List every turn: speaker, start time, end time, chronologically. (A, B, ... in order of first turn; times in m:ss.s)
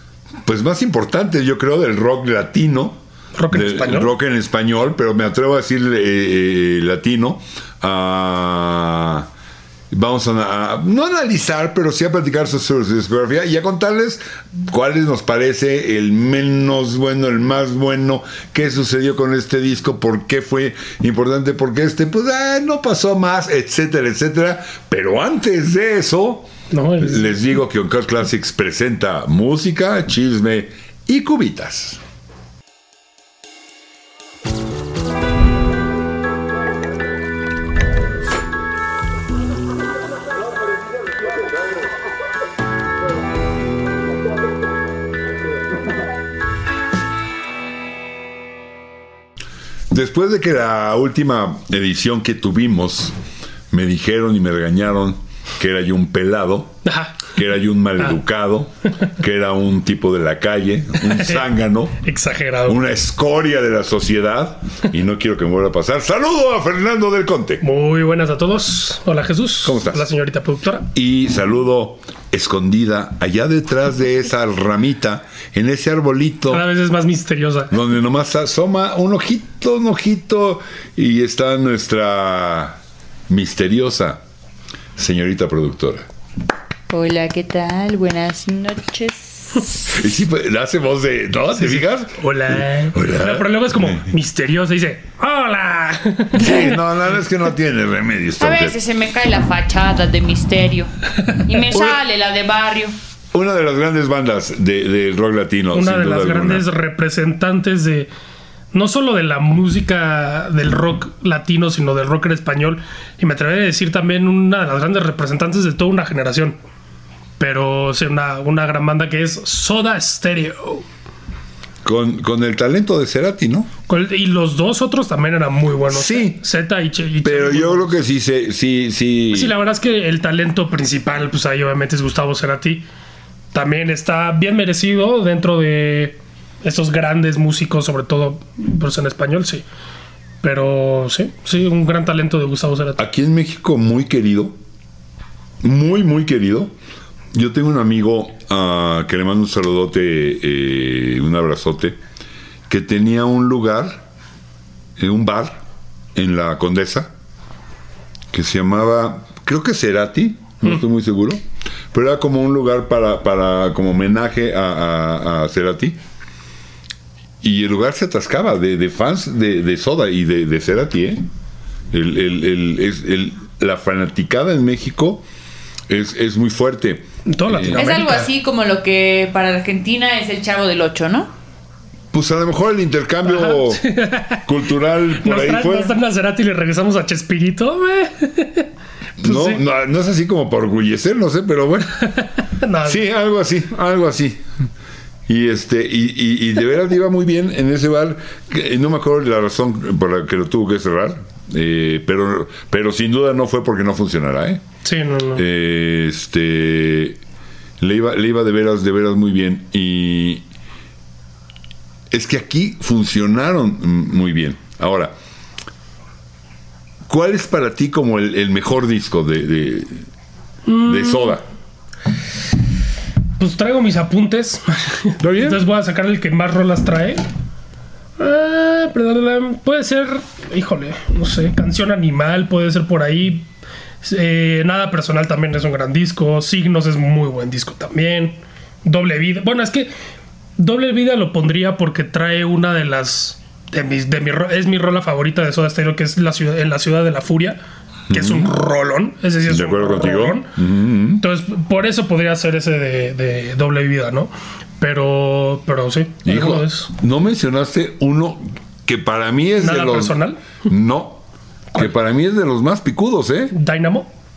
0:00.4-0:03.0 A
0:03.3-0:04.1 B
0:03.5-0:09.3 A
0:09.9-0:32.0 A
0:26.7-0:27.4 B
0:49.9-0:53.1 A
0:53.7-1:02.0 A
0:56.8-0:57.2 B
1:01.0-1:01.4 B
1:02.0-1:02.8 B
1:02.6-1:07.6 A
1:07.6-1:10.9 B
1:09.6-1:10.0 A
1:10.9-1:16.6 A
1:16.5-1:17.7 B
1:17.7-1:22.8 A
1:23.3-1:24.2 A
1:25.0-1:26.1 A
1:26.9-1:29.8 C
1:29.9-1:34.0 A
1:31.6-1:36.8 B
1:36.3-1:38.8 A
1:38.4-1:40.9 C
1:41.4-1:42.9 C
1:41.7-1:42.0 A
1:43.3-1:46.7 A
1:45.7-1:48.1 B
1:48.7-1:56.6 B
1:57.4-2:00.8 B
2:01.8-2:03.7 A
2:03.9-2:08.0 B
2:05.9-2:06.4 A
2:07.2-2:09.5 A
2:09.3-2:12.8 B
2:13.5-2:19.6 B
2:20.4-2:23.0 B
2:23.0-2:24.6 A
2:25.6-2:26.7 A
2:27.3-2:32.0 A
2:32.7-2:34.0 A
2:35.0-2:35.6 A
2:36.1-2:37.1 A
2:38.3-2:41.4 A
2:41.9-2:46.0 A
2:47.4-2:51.2 A
2:51.9-2:55.2 A
2:55.9-2:57.8 A
2:57.2-2:58.3 B
2:57.7-3:01.3 C
3:02.1-3:03.8 A
3:03.2-3:04.4 B
3:04.4-3:05.9 A
3:05.2-3:08.7 B
3:09.2-3:12.1 A
3:09.2-3:09.6 B
3:12.6-3:13.0 B
3:12.8-3:14.4 A
3:15.3-3:24.6 A
3:24.8-3:25.4 B
3:25.3-3:27.2 A
3:27.8-3:30.4 A
3:32.1-3:35.1 A
3:37.1-3:40.0 A
3:40.6-3:41.4 B
3:40.8-3:41.4 A
3:43.4-3:47.2 B
3:45.2-3:45.6 A
3:48.2-3:53.4 B
3:54.0-3:59.9 B
4:00.6-4:07.6 B
4:08.1-4:08.5 A
4:08.1-4:10.5 B
4:09.5-4:11.2 A
4:11.2-4:16.9 B
4:16.2-4:21.2 A
4:19.6-4:20.4 B
4:21.7-4:23.5 A
4:23.5-4:24.1 B